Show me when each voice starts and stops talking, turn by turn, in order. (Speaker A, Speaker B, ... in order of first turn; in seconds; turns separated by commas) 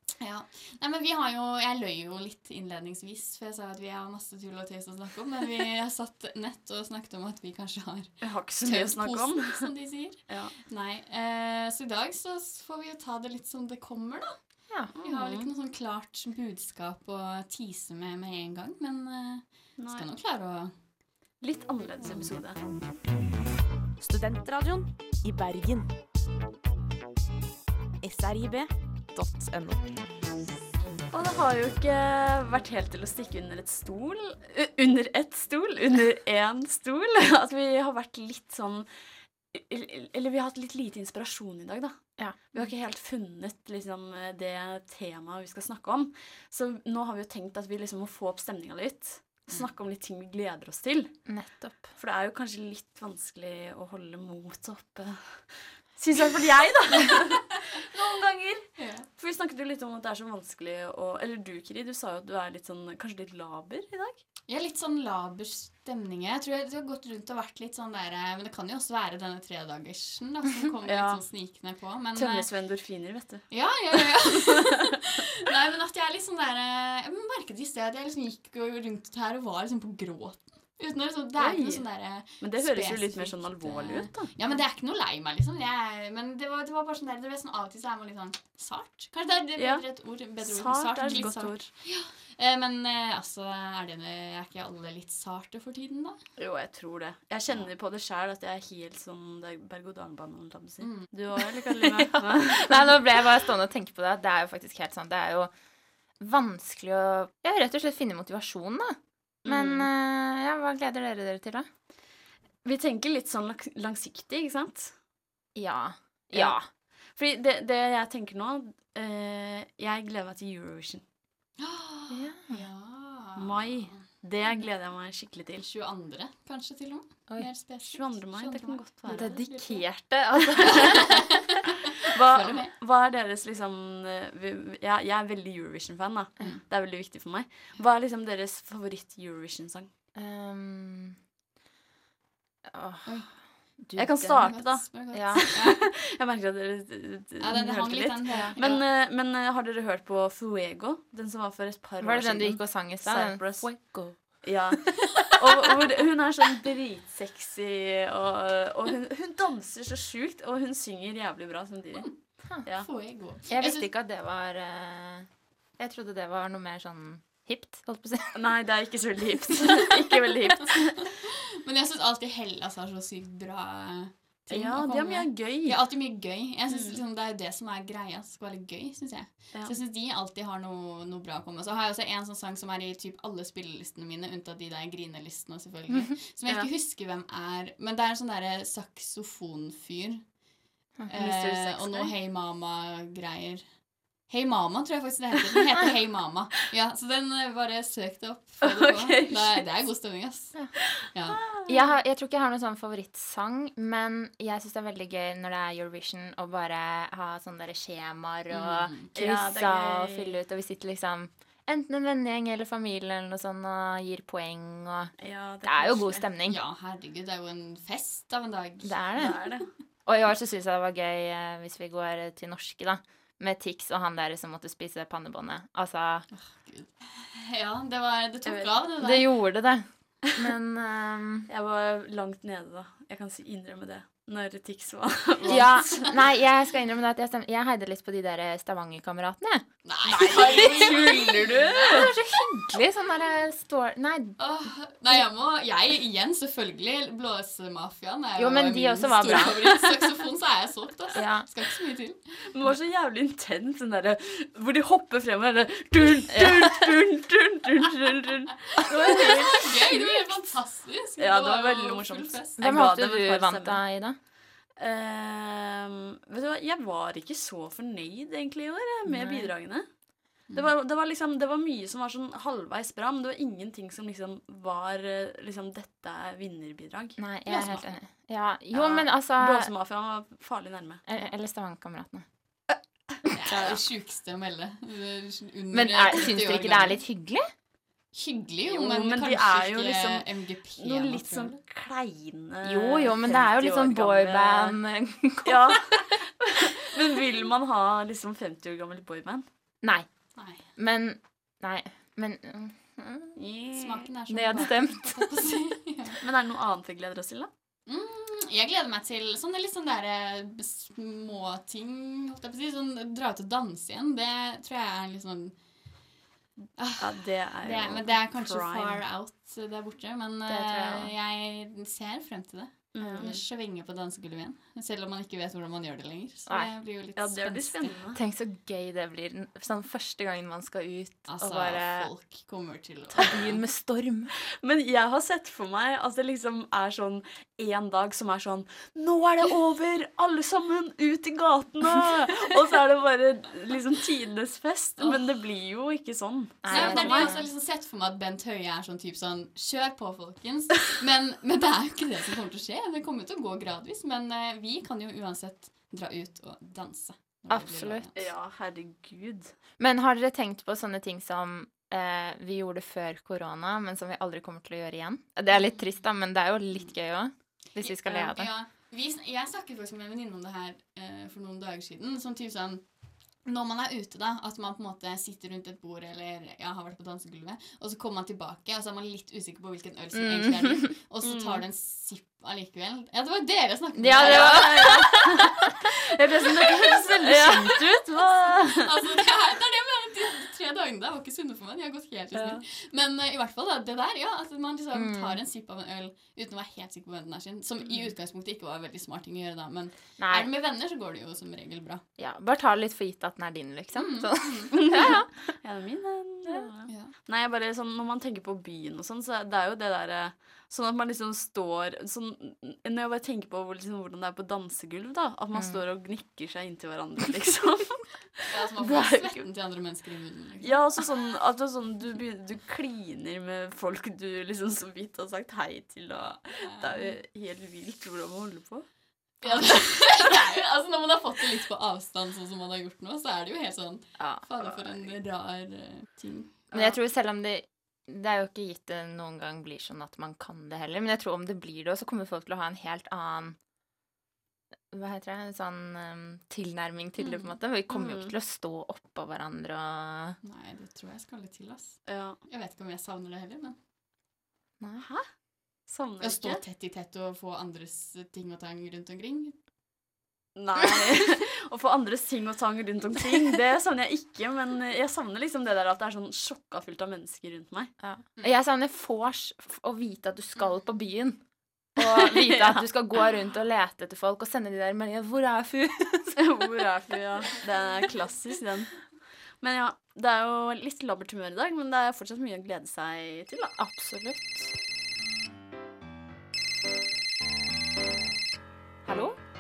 Speaker A: 0.2-20.8, Speaker B: 8.2-9.7, Speaker B: 10.3-10.6, Speaker B: 14.9-15.5, Speaker B: 19.8-20.1, Speaker B: 21.4-22.6, Speaker C: 24.0-26.0, Speaker C: 28.0-30.0, Speaker B: 31.1-51.4, Speaker D: 51.3-51.9, Speaker B: 52.0-64.2, Speaker A: 58.8-59.1, Speaker A: 64.5-72.5, Speaker B: 70.9-71.3, Speaker B: 72.2-73.6, Speaker A: 73.5-96.2, Speaker B: 81.4-84.4, Speaker B: 89.6-91.7, Speaker B: 96.4-102.9, Speaker A: 100.8-101.1, Speaker D: 102.1-105.5, Speaker D: 106.2-111.7, Speaker B: 109.4-109.9, Speaker B: 112.6-115.0, Speaker D: 115.5-116.7, Speaker B: 116.3-121.0, Speaker A: 121.6-124.0, Speaker D: 122.1-122.6, Speaker B: 123.4-125.7, Speaker A: 125.6-130.0, Speaker B: 127.8-129.3, Speaker D: 129.1-131.2, Speaker A: 130.7-131.0, Speaker B: 132.1-139.9, Speaker A: 132.3-132.7, Speaker D: 140.2-141.2, Speaker D: 142.7-145.4, Speaker A: 143.1-143.8, Speaker B: 143.9-162.9, Speaker A: 144.4-145.8, Speaker A: 147.4-148.8, Speaker D: 148.3-148.6, Speaker D: 152.0-154.8, Speaker A: 162.0-163.9, Speaker D: 162.5-168.4, Speaker B: 168.3-171.1, Speaker A: 171.6-190.4, Speaker B: 174.5-175.9, Speaker B: 176.7-177.0, Speaker D: 191.0-192.1, Speaker A: 191.1-201.4, Speaker B: 198.6-199.7, Speaker B: 201.0-201.8, Speaker D: 201.7-216.6, Speaker A: 208.5-209.1, Speaker B: 209.2-210.4, Speaker B: 215.2-216.2, Speaker A: 216.5-219.5, Speaker D: 218.8-219.4, Speaker B: 219.2-219.7, Speaker D: 220.1-226.3, Speaker A: 226.3-229.3, Speaker B: 228.4-228.8, Speaker D: 229.0-231.5, Speaker B: 231.5-236.2, Speaker A: 235.4-236.2, Speaker D: 235.5-244.5, Speaker A: 239.8-242.1, Speaker B: 240.1-242.1, Speaker A: 244.4-252.4, Speaker D: 248.4-250.0, Speaker D: 251.2-251.5, Speaker B: 252.5-260.3, Speaker D: 256.3-256.9, Speaker A: 258.8-262.7, Speaker B: 261.2-263.9, Speaker D: 262.6-264.2, Speaker B: 264.8-277.8, Speaker D: 269.1-269.5, Speaker D: 277.2-279.7, Speaker A: 277.5-277.9, Speaker B: 278.7-281.0, Speaker D: 281.1-282.3, Speaker A: 283.4-287.0, Speaker D: 283.5-283.7, Speaker D: 285.7-287.5, Speaker A: 288.1-291.6, Speaker B: 288.7-294.8, Speaker D: 292.6-295.8, Speaker B: 295.4-299.4, Speaker D: 299.8-303.4, Speaker A: 300.4-300.6, Speaker B: 303.4-304.7, Speaker A: 303.8-306.2, Speaker D: 304.3-305.4, Speaker B: 306.2-307.5, Speaker A: 307.9-316.0, Speaker A: 316.8-328.0, Speaker B: 317.0-319.0, Speaker D: 320.5-321.1, Speaker B: 322.9-323.4, Speaker D: 323.0-323.4, Speaker D: 326.5-326.7, Speaker B: 327.1-328.2, Speaker D: 328.1-332.1, Speaker A: 331.3-333.6, Speaker D: 333.2-334.4, Speaker B: 334.6-347.4, Speaker D: 346.6-347.4, Speaker A: 346.7-358.2, Speaker D: 357.5-358.1, Speaker B: 358.1-359.6, Speaker D: 359.8-368.5, Speaker A: 367.8-384.9, Speaker D: 380.1-380.9, Speaker B: 381.2-381.6, Speaker D: 383.9-385.5, Speaker B: 384.2-388.8, Speaker D: 387.2-387.8, Speaker A: 388.8-402.1, Speaker D: 394.9-395.4, Speaker D: 400.2-400.5, Speaker D: 402.2-405.2, Speaker A: 403.9-404.8, Speaker B: 404.8-419.5, Speaker D: 415.5-415.8, Speaker A: 418.5-420.8, Speaker B: 420.6-428.9, Speaker A: 426.6-427.2, Speaker A: 429.4-437.0, Speaker B: 429.9-430.3, Speaker D: 434.2-434.4, Speaker D: 436.7-443.6, Speaker D: 444.9-450.4, Speaker B: 447.9-448.3, Speaker A: 450.4-453.8, Speaker B: 452.1-452.4, Speaker D: 454.8-455.1, Speaker B: 455.0-455.3, Speaker B: 455.9-456.6, Speaker A: 456.2-459.6, Speaker B: 460.6-467.9, Speaker D: 468.0-476.4, Speaker B: 472.0-472.8, Speaker B: 476.4-483.8, Speaker D: 483.8-484.7, Speaker D: 489.1-489.4